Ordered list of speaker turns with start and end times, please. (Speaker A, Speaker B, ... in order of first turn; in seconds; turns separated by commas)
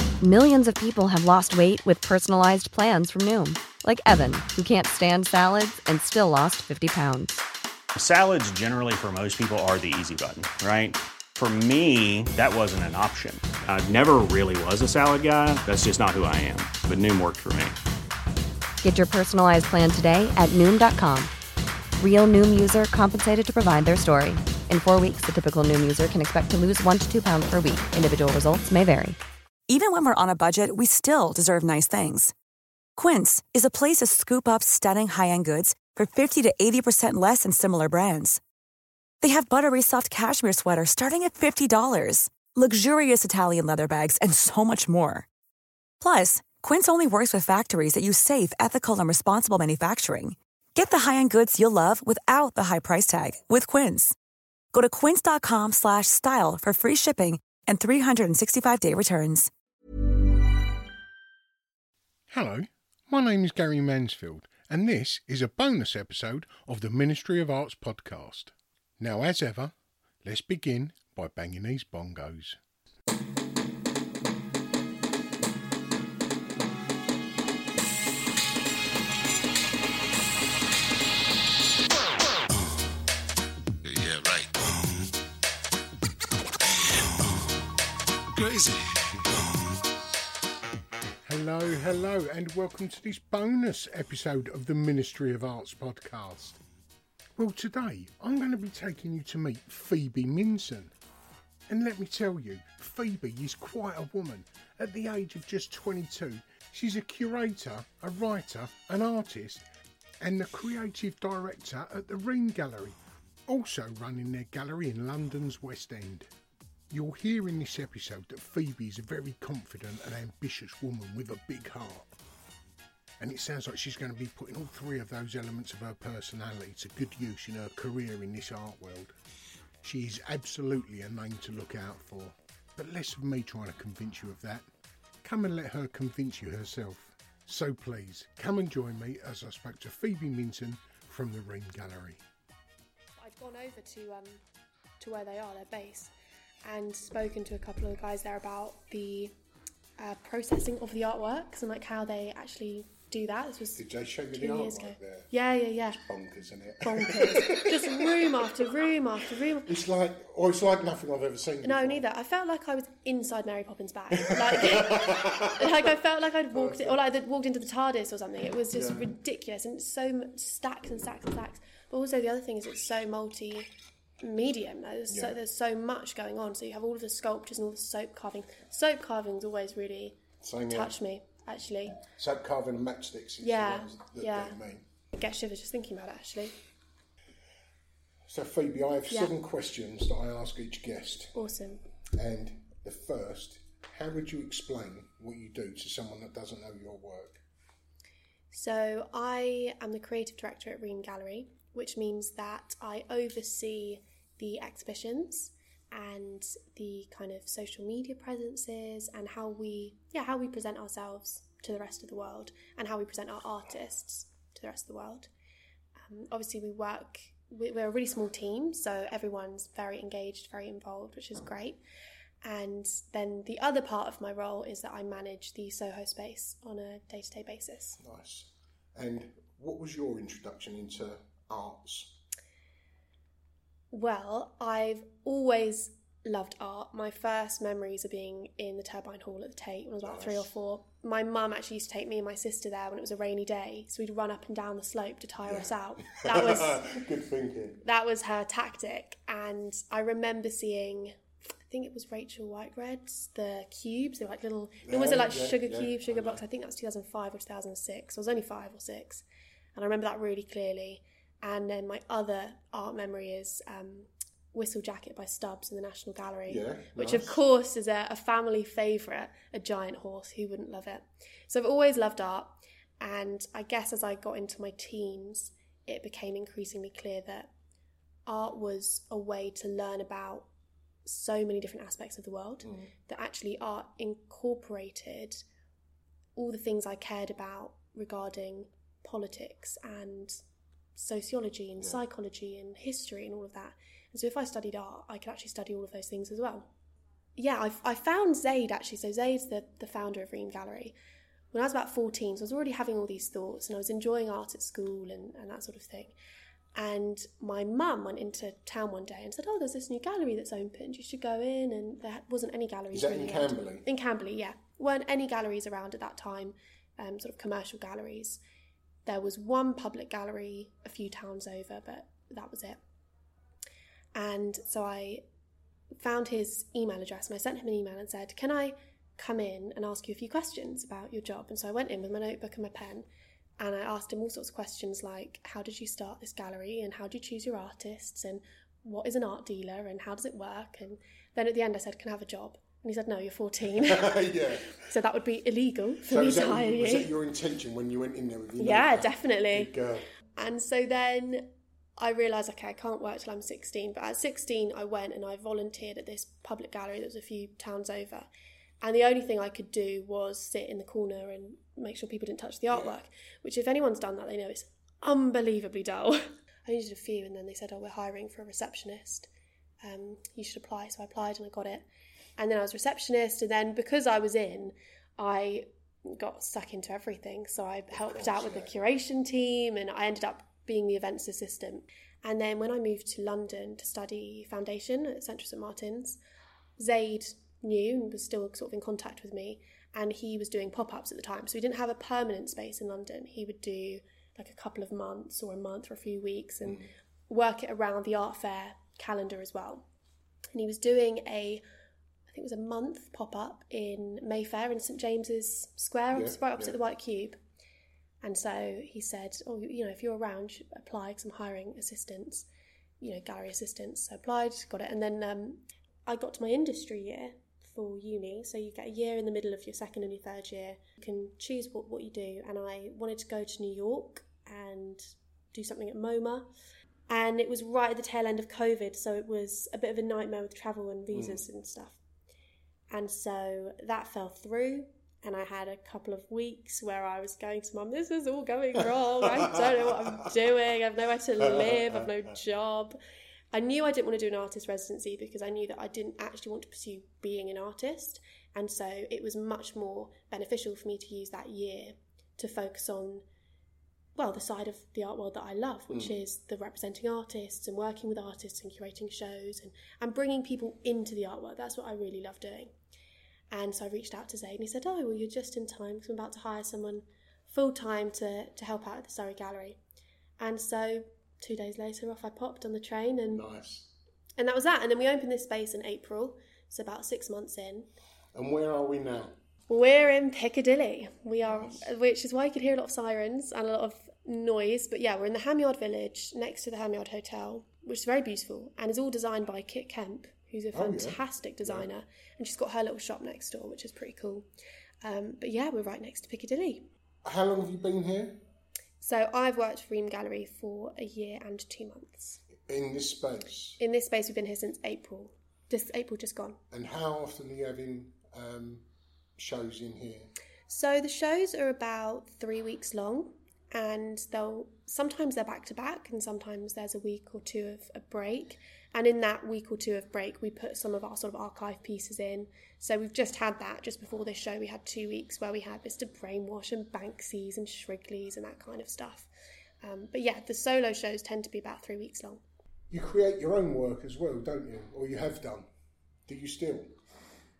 Speaker A: 0.2-7.4, Speaker B: 7.9-17.8, Speaker A: 18.8-21.3, Speaker A: 22.0-29.2, Speaker C: 29.7-32.3, Speaker C: 33.0-38.4, Speaker C: 39.2-45.3, Speaker C: 46.0-54.1, Speaker C: 54.7-59.5, Speaker D: 62.3-72.6, Speaker E: 83.8-84.9, Speaker E: 86.9-87.4, Speaker E: 88.3-89.4, Speaker D: 91.2-96.6, Speaker D: 97.4-100.9, Speaker D: 101.7-109.7, Speaker D: 110.2-116.3, Speaker D: 116.9-122.1, Speaker D: 123.2-129.2, Speaker D: 129.8-134.7, Speaker D: 135.2-142.2, Speaker F: 143.2-144.4, Speaker F: 145.0-146.1, Speaker F: 146.6-149.3, Speaker F: 150.0-156.0, Speaker D: 153.8-155.3, Speaker D: 155.8-162.0, Speaker F: 156.8-159.7, Speaker F: 161.6-173.7, Speaker D: 164.1-165.9, Speaker D: 166.5-167.0, Speaker D: 168.7-169.1, Speaker F: 174.2-182.0, Speaker D: 175.1-175.4, Speaker D: 180.4-180.9, Speaker D: 182.1-184.9, Speaker F: 183.4-184.6, Speaker F: 185.1-186.6, Speaker D: 188.3-191.4, Speaker F: 191.3-191.8, Speaker D: 192.1-197.4, Speaker F: 198.5-215.3, Speaker F: 216.0-221.8, Speaker F: 222.4-228.0, Speaker D: 228.0-232.2, Speaker F: 233.9-246.8, Speaker D: 240.0-240.5, Speaker D: 245.4-247.8, Speaker F: 247.8-251.2, Speaker F: 251.7-259.2, Speaker D: 254.8-256.4, Speaker F: 259.7-277.5, Speaker D: 266.5-267.4, Speaker F: 278.2-280.5, Speaker F: 281.1-285.4, Speaker D: 282.6-282.9, Speaker F: 286.4-290.4, Speaker F: 290.9-296.7, Speaker F: 297.4-300.9, Speaker F: 301.5-306.1, Speaker F: 306.8-318.4, Speaker D: 312.9-313.9, Speaker F: 319.1-322.8, Speaker F: 324.1-325.2, Speaker F: 326.0-333.1, Speaker F: 333.6-347.1, Speaker D: 343.7-344.8, Speaker D: 346.0-350.1, Speaker F: 348.6-349.7, Speaker F: 350.3-358.3, Speaker F: 358.8-369.3, Speaker F: 369.8-371.9, Speaker F: 372.4-386.2, Speaker D: 377.9-378.7, Speaker F: 386.8-399.9, Speaker D: 396.6-396.9, Speaker F: 400.5-401.6, Speaker F: 402.3-407.4, Speaker D: 406.1-406.8, Speaker F: 408.2-412.5, Speaker F: 413.0-426.5, Speaker F: 427.1-432.0, Speaker D: 431.1-431.4, Speaker F: 432.9-443.0, Speaker D: 439.0-440.3, Speaker D: 441.4-442.1, Speaker F: 443.5-453.2, Speaker F: 454.1-462.8, Speaker D: 455.9-456.1, Speaker F: 463.5-469.8, Speaker F: 470.4-473.4, Speaker D: 473.3-473.9, Speaker F: 474.4-477.9, Speaker D: 478.3-479.4, Speaker F: 479.7-494.4, Speaker D: 481.4-481.9, Speaker D: 490.7-491.9, Speaker F: 495.0-496.9, Speaker D: 497.2-498.4, Speaker F: 499.0-502.4, Speaker D: 502.6-503.8, Speaker F: 503.8-506.6, Speaker D: 506.7-510.3, Speaker F: 510.7-529.3, Speaker F: 529.8-532.4, Speaker D: 532.9-535.7, Speaker D: 536.3-537.0